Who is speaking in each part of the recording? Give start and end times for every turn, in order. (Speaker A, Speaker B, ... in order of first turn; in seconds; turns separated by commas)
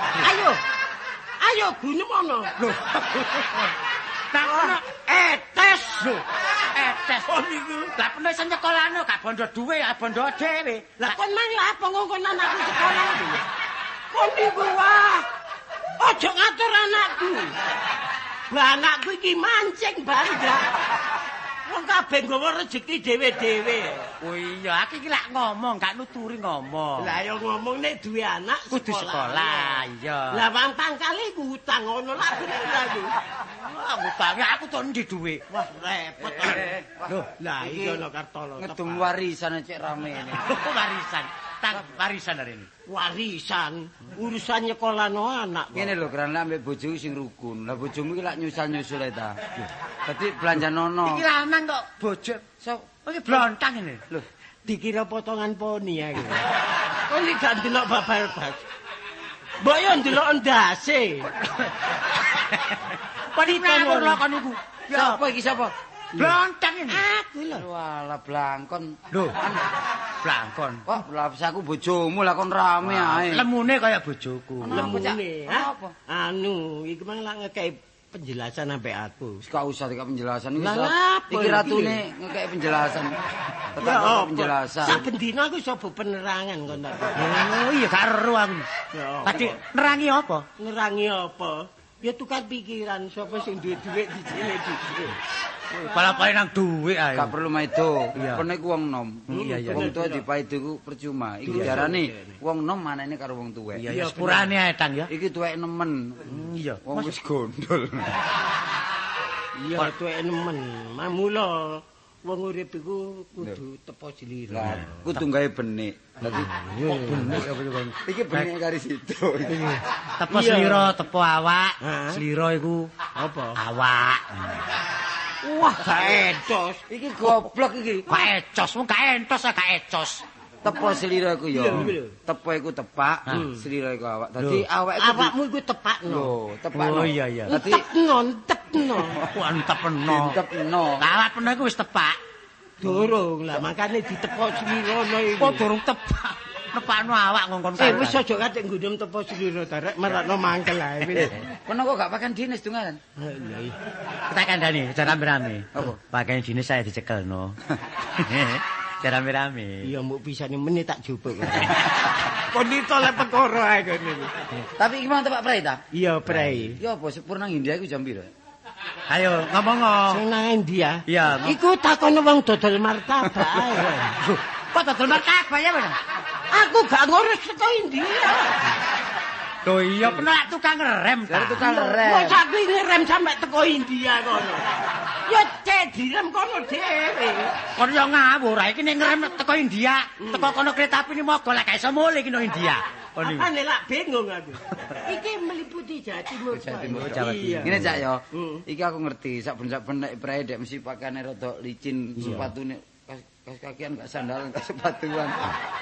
Speaker A: 0.1-0.6, Speaker A: 1.4-2.5, Speaker B: 2.6-3.7, Speaker B: 4.3-5.0, Speaker A: 4.4-6.2, Speaker B: 6.7-11.2, Speaker A: 7.2-7.9, Speaker A: 11.0-13.4, Speaker A: 14.1-15.3, Speaker A: 16.0-17.6, Speaker A: 18.5-20.7, Speaker A: 21.7-24.0, Speaker B: 24.2-27.1, Speaker A: 27.0-33.1, Speaker B: 28.7-30.4, Speaker B: 33.5-35.5, Speaker A: 35.5-36.7, Speaker C: 36.2-37.1, Speaker B: 37.0-37.3, Speaker A: 37.4-39.1, Speaker C: 38.6-40.4, Speaker B: 40.4-42.7, Speaker A: 42.9-46.0, Speaker C: 45.7-49.5, Speaker C: 50.0-51.2, Speaker B: 51.0-52.5, Speaker B: 53.0-54.1, Speaker A: 54.6-56.5, Speaker A: 57.1-58.6, Speaker A: 59.6-61.3, Speaker B: 63.3-65.2, Speaker A: 63.4-64.2, Speaker C: 64.9-65.7, Speaker B: 66.1-67.0, Speaker A: 66.9-67.7, Speaker C: 67.5-69.6, Speaker B: 69.1-69.4, Speaker B: 70.2-70.8, Speaker C: 70.8-73.5, Speaker B: 72.8-75.0, Speaker C: 74.6-75.9, Speaker A: 74.7-79.4, Speaker C: 79.4-83.1, Speaker A: 80.6-82.0, Speaker C: 83.7-85.0, Speaker A: 83.8-87.5, Speaker B: 87.2-88.7, Speaker A: 88.9-89.5, Speaker B: 89.2-90.5, Speaker A: 90.6-95.2, Speaker B: 95.8-97.3, Speaker C: 97.1-103.8, Speaker B: 98.1-98.4, Speaker A: 99.3-100.2, Speaker B: 99.3-99.9, Speaker A: 101.4-102.4, Speaker B: 103.8-105.1, Speaker A: 103.8-104.5, Speaker C: 105.1-106.3, Speaker B: 106.3-107.2, Speaker C: 106.8-108.2, Speaker A: 109.6-115.0, Speaker C: 114.5-119.8, Speaker A: 116.2-117.5, Speaker B: 117.1-118.5, Speaker B: 120.2-122.9, Speaker A: 120.3-120.9, Speaker A: 121.8-122.2, Speaker A: 123.1-123.6, Speaker B: 123.5-124.4, Speaker A: 125.4-126.8, Speaker C: 126.9-128.1, Speaker B: 128.1-130.2, Speaker C: 130.6-135.3, Speaker A: 131.5-132.1, Speaker A: 133.3-133.6, Speaker B: 134.4-134.6, Speaker A: 135.0-136.3, Speaker C: 136.1-137.8, Speaker B: 136.7-137.5, Speaker A: 137.5-139.2, Speaker B: 139.2-140.4, Speaker C: 140.1-141.0, Speaker B: 141.0-142.2, Speaker A: 142.8-145.7, Speaker B: 145.4-148.2, Speaker A: 147.8-151.4, Speaker C: 151.2-153.0, Speaker A: 153.2-153.8, Speaker B: 154.3-159.9, Speaker A: 159.8-164.6, Speaker C: 164.8-168.3, Speaker A: 165.9-166.8, Speaker B: 169.1-170.2, Speaker A: 170.1-174.2, Speaker B: 171.1-171.5, Speaker B: 174.2-176.0, Speaker A: 176.5-178.8, Speaker B: 179.7-181.6, Speaker C: 181.3-182.4, Speaker A: 181.6-187.5, Speaker B: 187.8-193.5, Speaker A: 190.2-190.5, Speaker A: 193.2-198.6, Speaker C: 196.5-205.5, Speaker B: 197.1-197.9, Speaker A: 202.2-202.5, Speaker B: 202.2-202.5